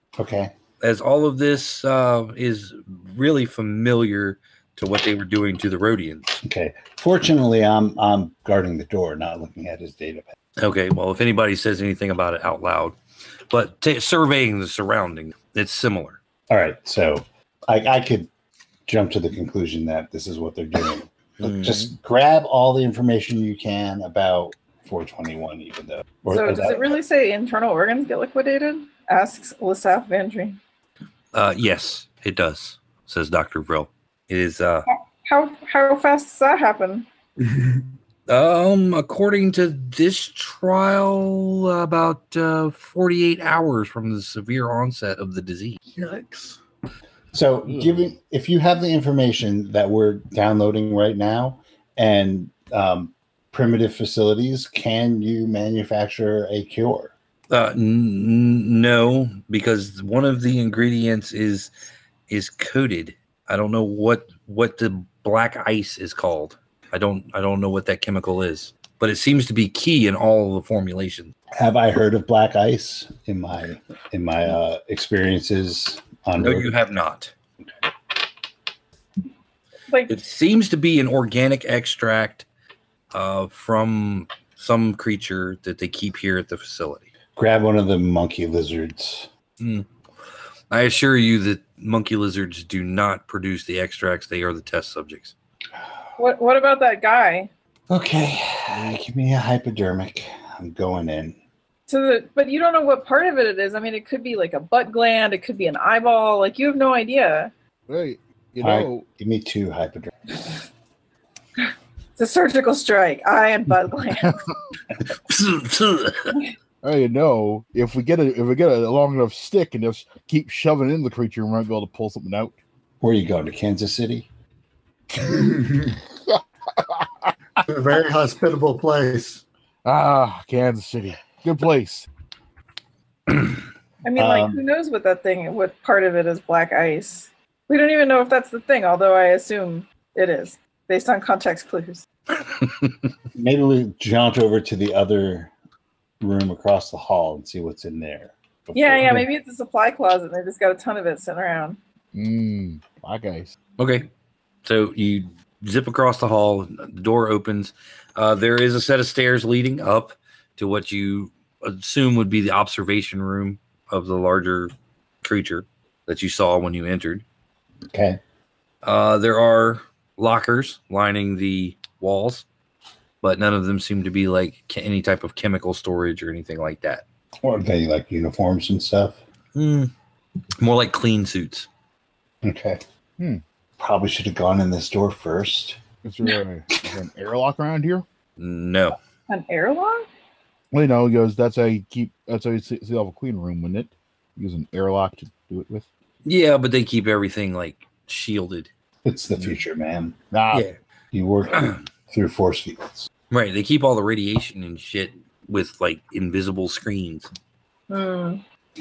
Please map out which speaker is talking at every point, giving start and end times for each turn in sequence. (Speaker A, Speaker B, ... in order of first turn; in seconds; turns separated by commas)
Speaker A: 0.2-0.5, Speaker B: 0.8-6.4, Speaker A: 6.4-10.2, Speaker B: 10.6-13.0, Speaker B: 13.5-16.2, Speaker A: 16.5-18.3, Speaker A: 18.9-27.0, Speaker B: 21.4-21.9, Speaker C: 26.3-30.6, Speaker B: 31.3-34.9, Speaker C: 34.9-37.1, Speaker D: 37.4-37.8, Speaker B: 38.3-45.8, Speaker D: 46.0-46.6, Speaker A: 47.3-57.1, Speaker B: 57.5-61.7, Speaker B: 62.3-71.3, Speaker A: 71.5-76.7, Speaker B: 76.4-77.3, Speaker B: 80.1-82.5, Speaker B: 83.1-87.1, Speaker A: 87.3-89.3, Speaker B: 89.6-89.8, Speaker B: 90.7-95.3, Speaker C: 96.2-97.5, Speaker A: 97.9-101.4, Speaker C: 101.9-107.5, Speaker E: 107.9-109.0, Speaker A: 108.6-110.1, Speaker C: 112.2-114.4, Speaker B: 115.1-116.4, Speaker E: 116.8-122.5, Speaker A: 123.0-124.3, Speaker D: 125.2-126.0, Speaker E: 126.3-127.3, Speaker D: 127.6-129.4, Speaker E: 129.8-132.1, Speaker C: 134.0-142.0, Speaker A: 134.1-134.6, Speaker A: 143.3-145.5, Speaker A: 146.2-149.2, Speaker C: 148.7-151.8, Speaker E: 152.1-153.5, Speaker B: 153.8-154.1, Speaker B: 154.6-164.7, Speaker B: 165.2-167.2, Speaker A: 167.9-168.2, Speaker B: 168.8-172.4, Speaker B: 173.2-177.0, Speaker A: 177.4-179.2, Speaker B: 179.5-179.9, Speaker B: 180.6-181.7, Speaker A: 182.4-182.8, Speaker A: 183.8-185.8, Speaker E: 186.0-188.0, Speaker B: 188.4-189.0, Speaker C: 189.3-190.1, Speaker E: 190.7-195.8, Speaker B: 196.2-198.7, Speaker A: 199.0-200.2, Speaker E: 200.3-200.6, Speaker A: 201.1-203.1, Speaker B: 201.5-201.8, Speaker B: 203.3-207.3, Speaker C: 207.9-208.4